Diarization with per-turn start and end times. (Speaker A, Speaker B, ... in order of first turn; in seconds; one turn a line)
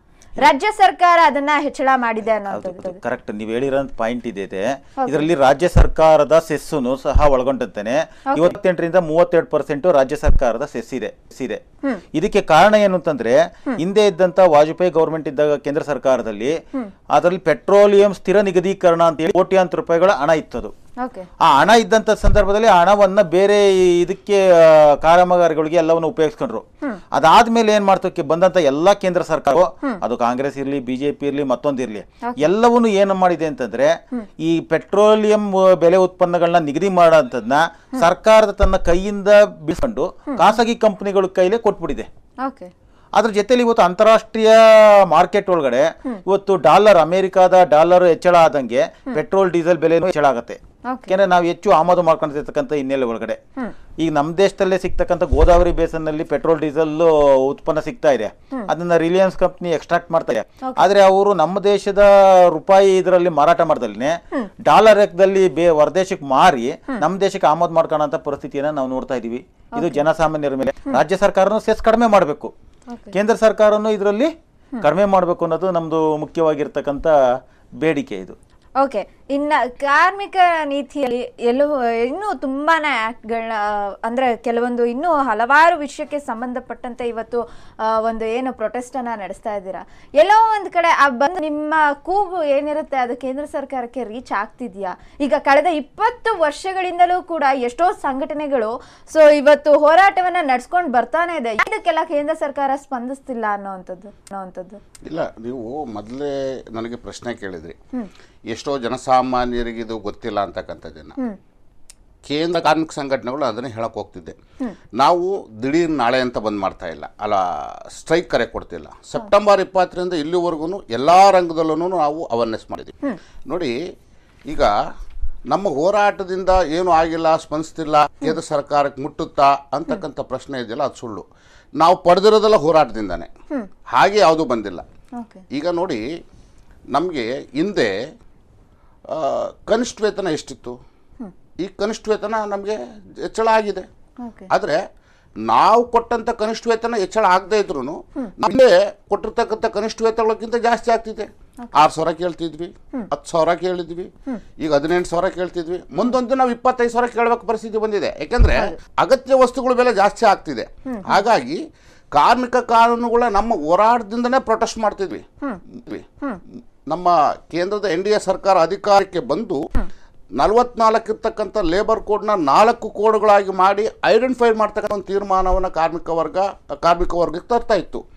Speaker A: 0.4-3.0
Speaker B: 2.5-11.6
Speaker A: 5.0-5.3
Speaker A: 8.3-8.6
Speaker B: 12.1-16.6
Speaker B: 17.1-20.7
Speaker A: 21.0-21.3
Speaker B: 21.4-42.1
Speaker A: 32.2-32.5
Speaker A: 40.3-40.6
Speaker A: 42.4-42.7
Speaker B: 43.1-53.4
Speaker A: 50.8-51.1
Speaker B: 54.0-72.5
Speaker A: 60.6-60.9
Speaker A: 69.8-70.1
Speaker A: 72.9-73.1
Speaker B: 73.1-77.1
Speaker B: 77.8-78.3
Speaker A: 78.8-104.8
Speaker C: 105.1-107.8
Speaker C: 108.5-111.1
Speaker C: 112.2-114.3
Speaker C: 115.0-122.9
Speaker C: 123.5-123.7
Speaker C: 125.5-131.2
Speaker C: 131.8-133.3
Speaker C: 133.9-134.8
Speaker A: 135.2-135.4
Speaker C: 135.5-136.0
Speaker C: 136.9-137.9
Speaker C: 139.1-140.7
Speaker C: 141.6-143.8
Speaker A: 144.2-144.5
Speaker C: 144.5-144.8
Speaker C: 145.5-161.6
Speaker A: 160.9-161.2
Speaker C: 162.1-166.1
Speaker C: 166.9-169.6
Speaker C: 170.4-178.0